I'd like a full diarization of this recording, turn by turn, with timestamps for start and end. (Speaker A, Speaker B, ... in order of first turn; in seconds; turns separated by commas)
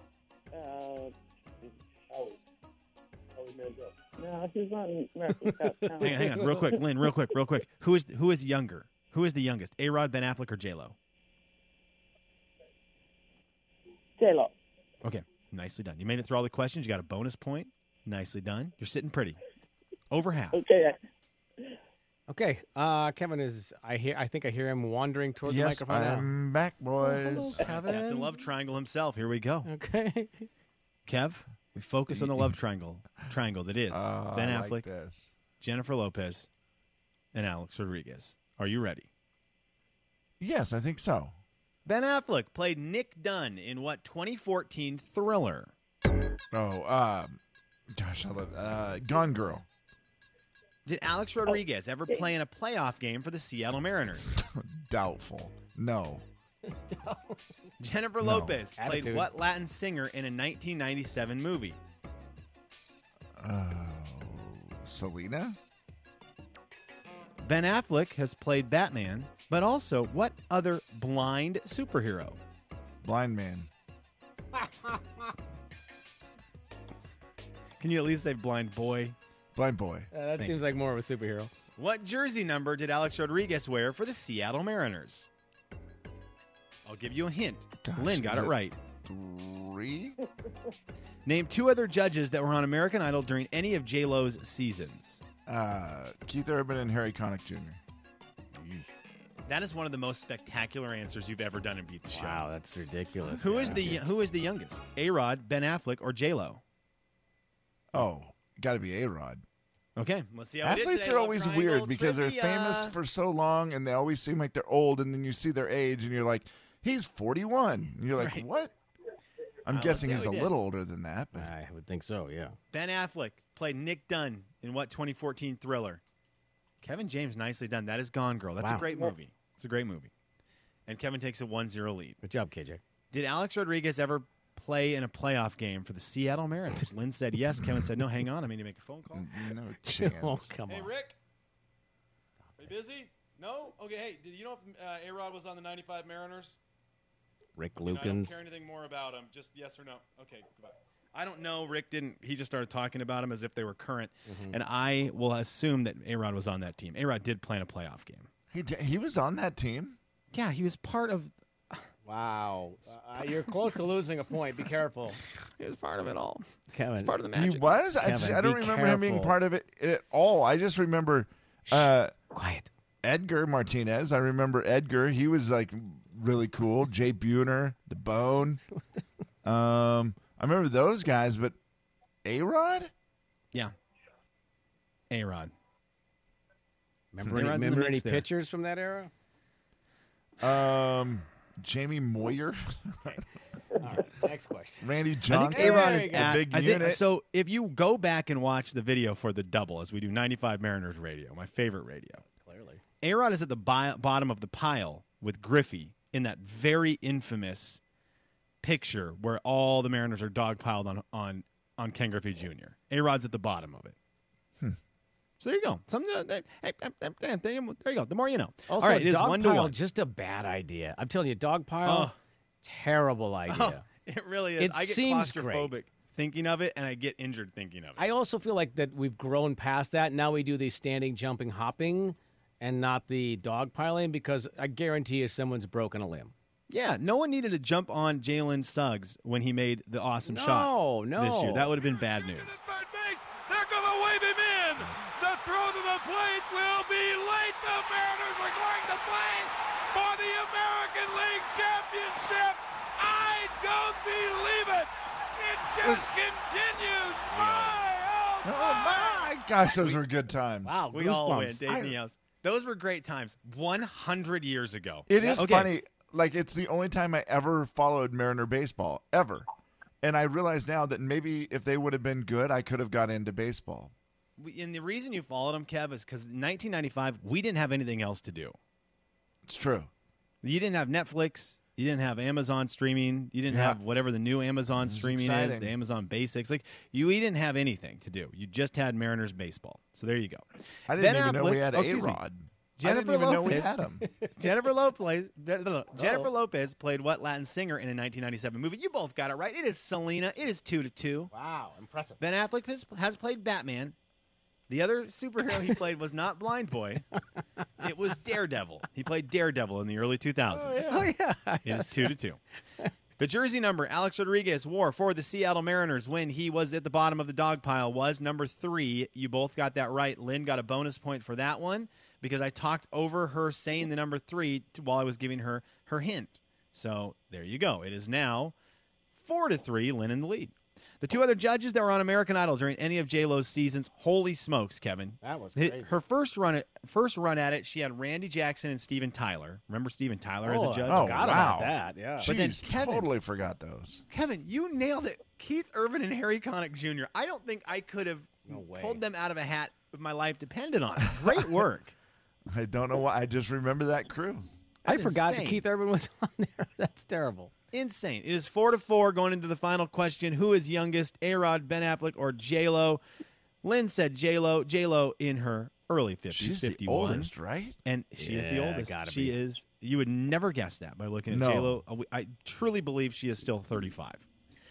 Speaker A: 0.5-1.1, Speaker A: 3.4-6.8, Speaker B: 5.4-6.7, Speaker C: 6.0-10.9, Speaker A: 14.2-14.5, Speaker C: 15.0-19.4, Speaker C: 20.1-20.6, Speaker A: 20.5-21.0, Speaker B: 22.3-26.3, Speaker D: 25.4-27.6, Speaker A: 27.1-27.5, Speaker B: 27.5-28.3, Speaker C: 27.6-29.7, Speaker B: 29.6-30.5, Speaker C: 31.1-34.8, Speaker D: 32.1-32.5, Speaker D: 33.9-35.3, Speaker C: 35.6-36.5, Speaker C: 37.3-39.1, Speaker D: 40.4-41.3, Speaker C: 41.9-45.7, Speaker D: 46.5-47.4, Speaker D: 47.9-49.6, Speaker C: 50.9-54.3, Speaker D: 54.3-56.2, Speaker B: 56.7-57.5, Speaker C: 57.8-61.8, Speaker D: 58.2-58.6, Speaker B: 58.8-59.3, Speaker D: 63.4-65.6, Speaker C: 67.4-72.4, Speaker D: 73.0-73.7, Speaker B: 74.5-75.3, Speaker C: 77.8-79.1, Speaker D: 79.5-80.1, Speaker B: 80.1-81.5, Speaker C: 81.8-85.3, Speaker C: 86.8-88.8, Speaker D: 87.8-88.5, Speaker D: 89.0-90.2, Speaker C: 91.2-95.2, Speaker D: 95.5-97.8, Speaker B: 98.6-98.8, Speaker C: 99.5-102.4, Speaker B: 102.1-104.0, Speaker C: 103.4-106.6, Speaker D: 107.9-109.4, Speaker C: 110.0-112.9, Speaker D: 110.6-118.7, Speaker C: 118.2-118.4, Speaker D: 119.6-121.5, Speaker C: 119.7-120.5, Speaker B: 121.3-122.5, Speaker C: 122.7-126.0, Speaker C: 126.8-130.1, Speaker C: 130.9-132.2, Speaker B: 132.2-132.8, Speaker C: 133.1-139.3, Speaker D: 139.1-140.5, Speaker B: 139.9-140.9, Speaker C: 140.7-141.2, Speaker C: 142.6-146.6, Speaker B: 147.6-148.4, Speaker C: 147.8-158.3, Speaker B: 154.3-154.6, Speaker D: 158.5-160.0, Speaker C: 160.3-161.8, Speaker B: 162.1-165.2, Speaker C: 165.4-166.4, Speaker B: 166.7-167.2, Speaker C: 167.0-167.8, Speaker D: 167.3-172.1, Speaker B: 168.0-169.3, Speaker B: 171.7-172.7, Speaker D: 173.0-178.6, Speaker D: 179.4-181.6, Speaker D: 182.2-182.9, Speaker C: 185.1-185.5, Speaker B: 187.1-189.1, Speaker C: 187.3-188.2, Speaker D: 190.4-193.2, Speaker B: 193.8-196.4, Speaker D: 194.8-197.0, Speaker C: 195.3-202.2, Speaker B: 202.3-202.8, Speaker C: 203.0-207.8, Speaker C: 208.6-213.9, Speaker C: 215.4-219.7, Speaker B: 218.7-223.8, Speaker C: 221.8-222.1, Speaker C: 223.5-228.1, Speaker B: 224.6-225.8, Speaker B: 228.0-236.3, Speaker C: 236.7-242.6, Speaker B: 240.3-241.7, Speaker E: 242.0-259.2, Speaker C: 244.8-245.1, Speaker D: 255.8-256.1, Speaker B: 257.3-257.7, Speaker C: 257.3-257.8, Speaker D: 258.4-260.8, Speaker B: 260.6-261.6, Speaker C: 260.9-265.7, Speaker D: 261.6-262.0, Speaker D: 265.1-269.4, Speaker B: 265.1-265.5, Speaker D: 270.0-273.9, Speaker C: 274.4-278.6, Speaker D: 279.4-279.9, Speaker C: 280.4-292.2, Speaker D: 283.5-283.8, Speaker D: 284.7-285.7, Speaker D: 290.9-294.0, Speaker C: 292.8-293.7, Speaker B: 293.4-294.4, Speaker C: 294.4-301.3, Speaker B: 295.9-296.3, Speaker B: 301.3-302.2, Speaker C: 302.2-303.9, Speaker C: 304.7-307.1, Speaker C: 307.8-311.0, Speaker D: 310.5-311.1, Speaker B: 310.8-312.1, Speaker C: 311.6-312.4, Speaker C: 313.2-328.5, Speaker C: 329.1-341.5, Speaker B: 335.2-335.9, Speaker B: 340.4-342.3, Speaker D: 340.9-344.0, Speaker C: 342.2-343.1, Speaker C: 344.1-351.9, Speaker B: 348.4-349.0, Speaker D: 352.5-354.5, Speaker C: 354.8-355.6, Speaker B: 354.8-357.5, Speaker C: 357.7-363.0, Speaker C: 363.6-367.3, Speaker D: 366.3-367.8, Speaker C: 367.8-374.2, Speaker B: 368.2-369.4, Speaker D: 371.3-371.8